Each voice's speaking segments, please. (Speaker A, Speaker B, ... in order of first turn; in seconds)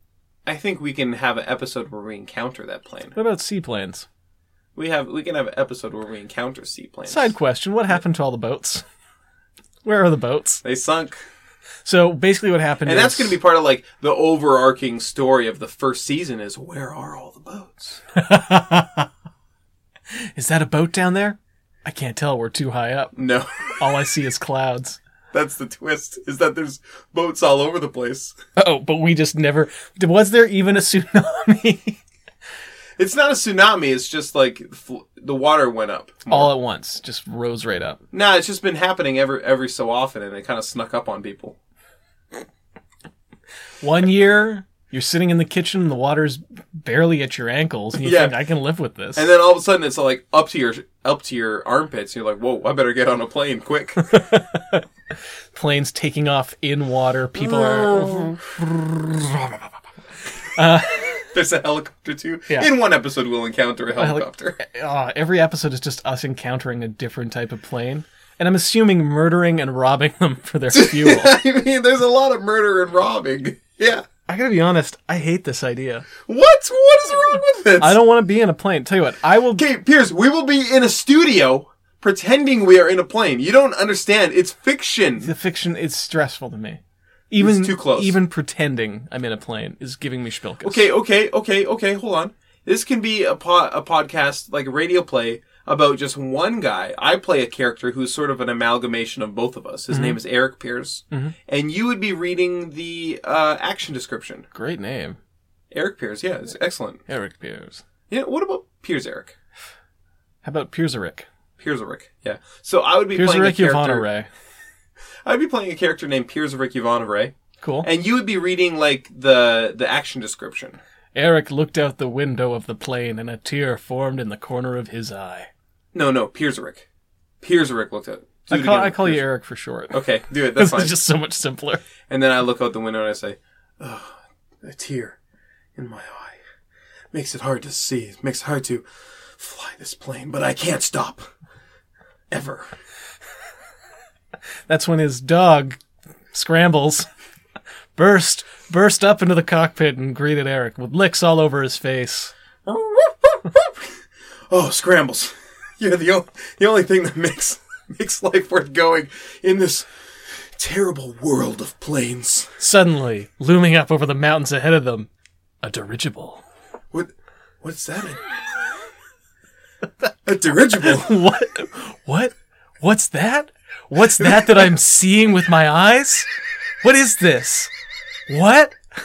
Speaker A: 0.5-3.1, 4.8-7.3, 10.6-11.1, 12.8-18.0, 23.1-23.7, 25.3-28.3, 33.0-36.5, 38.1-41.5, 48.0-48.3, 49.1-54.1, 57.4-58.4, 61.3-64.6, 70.7-74.0, 76.2-78.0, 79.5-85.3, 87.4-88.2, 90.6-104.5, 105.7-107.0, 108.1-109.3, 111.6-114.1, 115.2-120.8, 125.9-126.9, 127.4-129.2, 129.9-131.0, 132.1-135.2, 135.8-136.4, 137.1-138.8, 139.4-141.2, 142.3-142.6, 152.7-154.0, 154.5-162.6, 166.9-168.2, 170.2-171.1, 174.2-174.5
Speaker B: 3.1-4.1, 7.1-8.8, 9.8-10.6, 11.8-13.4, 18.1-19.1, 20.2-23.2, 23.8-25.0, 28.6-32.0, 36.3-38.0, 43.8-49.3, 54.0-54.8, 55.5-59.6, 60.5-61.3, 64.0-71.3, 74.3-76.1, 77.8-79.6, 85.2-90.9, 99.9-100.2, 104.5-105.2, 107.1-107.8, 110.4-111.3, 113.1-114.3, 117.6-117.9, 121.1-125.5, 128.5-131.8, 144.7-145.8, 146.3-147.1, 147.9-152.3, 162.6-165.1, 165.6-166.4, 170.8-176.3, 176.8-177.7, 178.3-178.7